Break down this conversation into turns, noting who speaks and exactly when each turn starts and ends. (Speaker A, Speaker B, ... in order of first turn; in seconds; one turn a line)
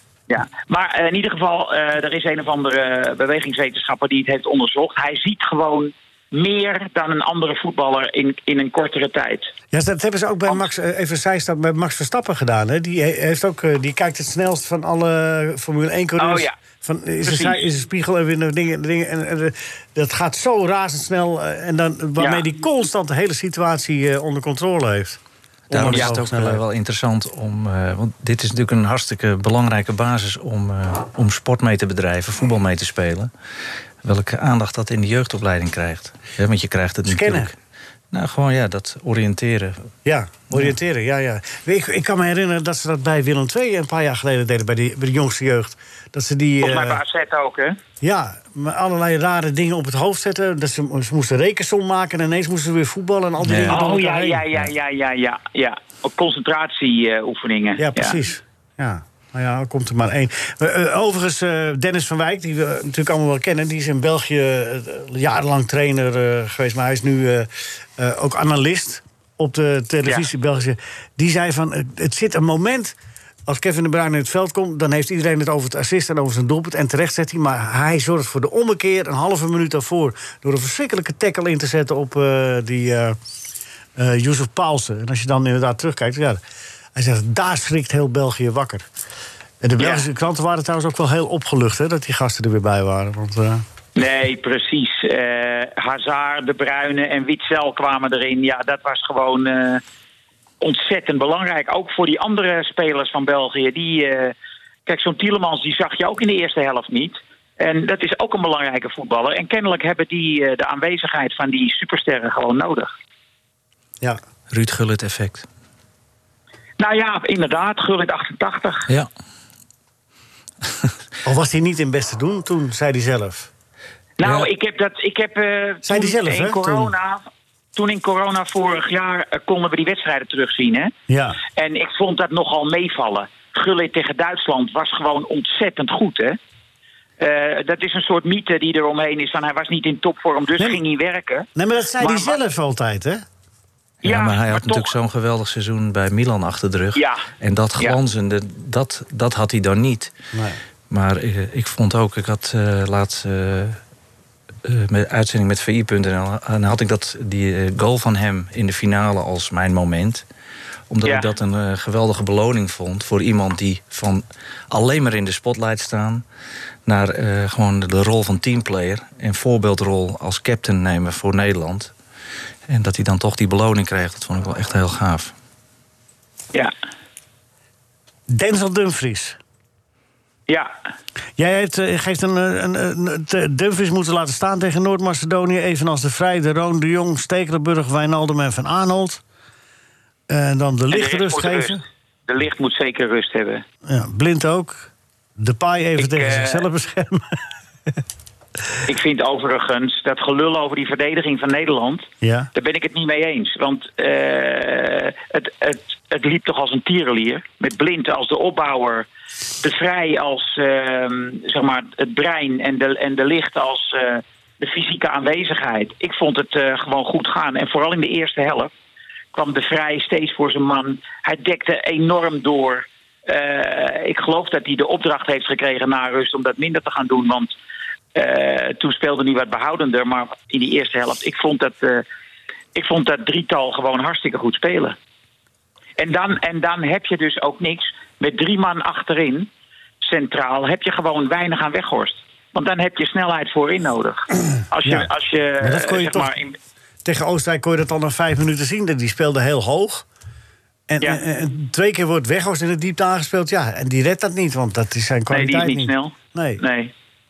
Speaker A: 0.3-9.5
Speaker B: 9.7-26.6
Speaker A: 16.2-16.5
Speaker A: 17.2-17.6
Speaker A: 22.2-22.4
Speaker C: 25.7-33.3
Speaker C: 34.0-37.5
Speaker B: 37.0-37.5
Speaker C: 38.1-39.9
Speaker B: 40.0-47.0
Speaker A: 46.6-47.8
Speaker B: 48.0-54.4
Speaker C: 53.4-53.8
Speaker A: 53.7-58.2
Speaker B: 57.8-83.2
Speaker B: 84.0-86.4
Speaker B: 86.9-88.9
Speaker B: 89.6-93.6
Speaker A: 89.8-90.0
Speaker A: 94.0-99.8
Speaker A: 100.6-104.3
Speaker A: 104.8-112.9
Speaker C: 114.5-115.5
Speaker A: 116.8-118.9
Speaker B: 121.2-123.5
Speaker A: 124.2-127.2
Speaker C: 124.2-124.5
Speaker B: 125.8-126.9
Speaker A: 127.7-130.9
Speaker B: 131.1-131.4
Speaker A: 131.5-136.4
Speaker A: 137.2-141.5
Speaker B: 141.6-143.2
Speaker A: 142.0-142.4
Speaker C: 144.0-150.1
Speaker A: 144.0-144.9
Speaker A: 146.9-147.2
Speaker B: 150.3-150.6
Speaker C: 150.9-153.8
Speaker C: 154.6-160.2
Speaker C: 160.9-166.2
Speaker A: 161.0-161.3
Speaker C: 166.8-171.9
Speaker C: 172.7-175.3
Speaker B: 178.3-179.4
Speaker B: 181.4-189.2
Speaker B: 190.3-191.8
Speaker A: 190.9-193.6
Speaker B: 193.8-197.4
Speaker A: 196.0-196.7
Speaker A: 198.8-209.1
Speaker B: 202.2-202.5
Speaker A: 209.6-218.7
Speaker A: 219.3-227.6
Speaker A: 228.1-232.0
Speaker A: 232.7-234.9
Speaker A: 236.0-239.5
Speaker A: 240.0-246.6
Speaker B: 244.8-246.3
Speaker B: 247.0-250.0
Speaker B: 250.9-256.6
Speaker A: 255.3-256.9